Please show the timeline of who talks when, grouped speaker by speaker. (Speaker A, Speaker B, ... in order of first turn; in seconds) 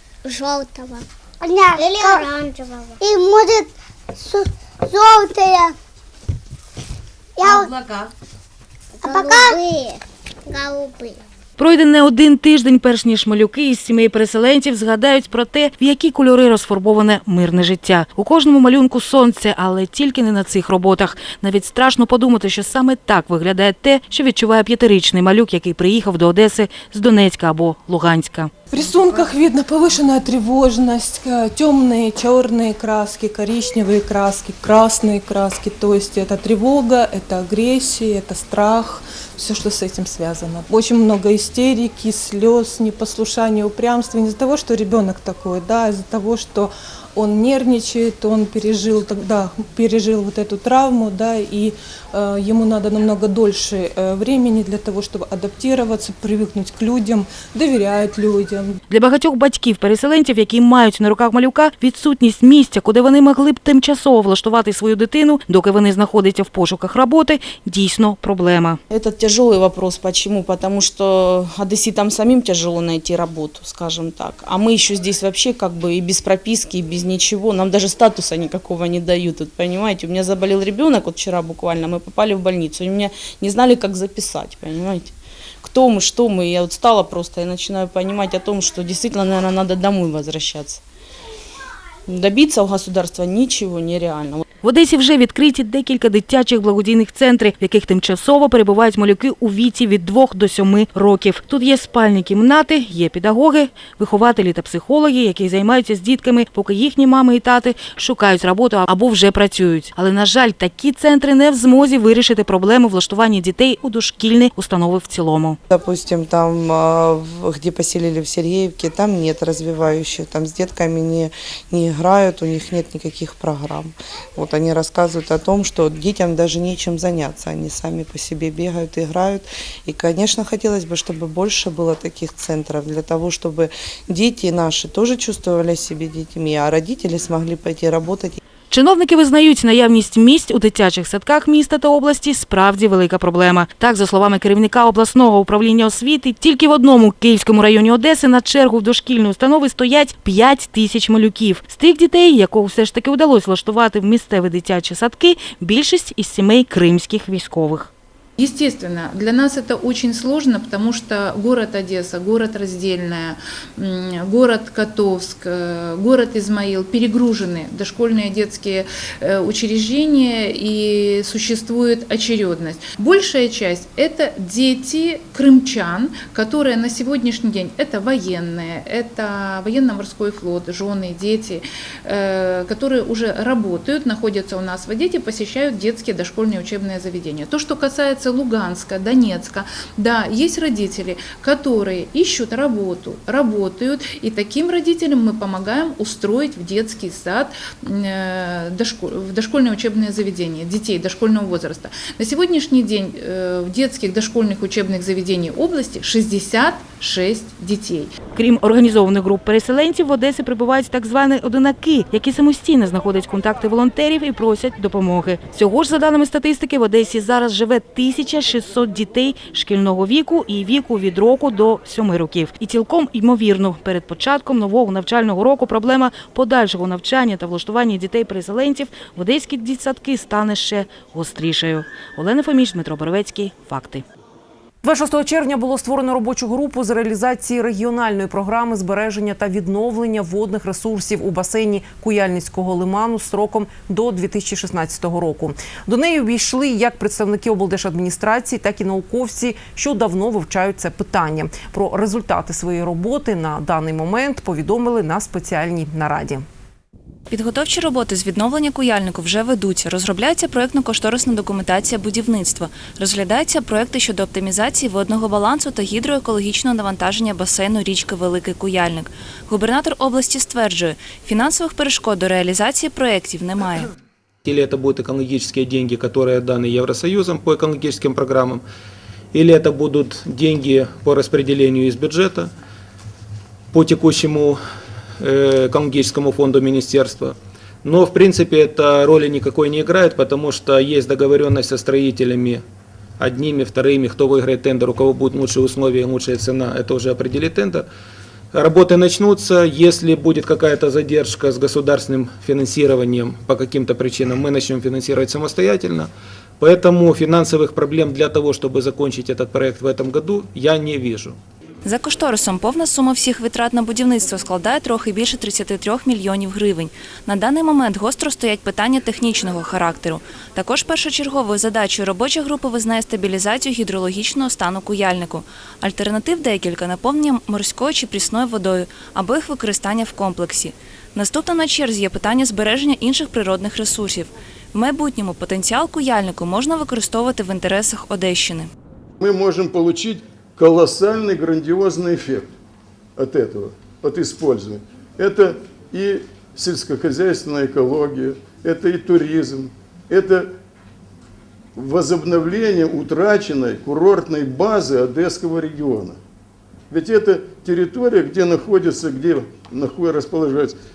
Speaker A: 0.2-5.7, 7.4-7.7, 9.0-11.2
Speaker B: 11.6-28.5, 58.9-68.8, 94.6-115.6, 138.7-157.9, 208.3-234.0
Speaker C: 28.7-58.8
Speaker D: 68.9-90.8, 92.1-94.4
Speaker E: 115.7-138.4
Speaker F: 158.4-208.1
Speaker G: 234.8-256.4
Speaker H: 257.3-273.9, 311.8-338.7
Speaker I: 274.4-278.6, 279.3-282.5, 283.7-284.6, 285.2-292.6, 293.2-297.9, 298.5-311.4
Speaker J: 339.2-342.5, 343.2-350.5, 351.8-356.2, 356.9-360.8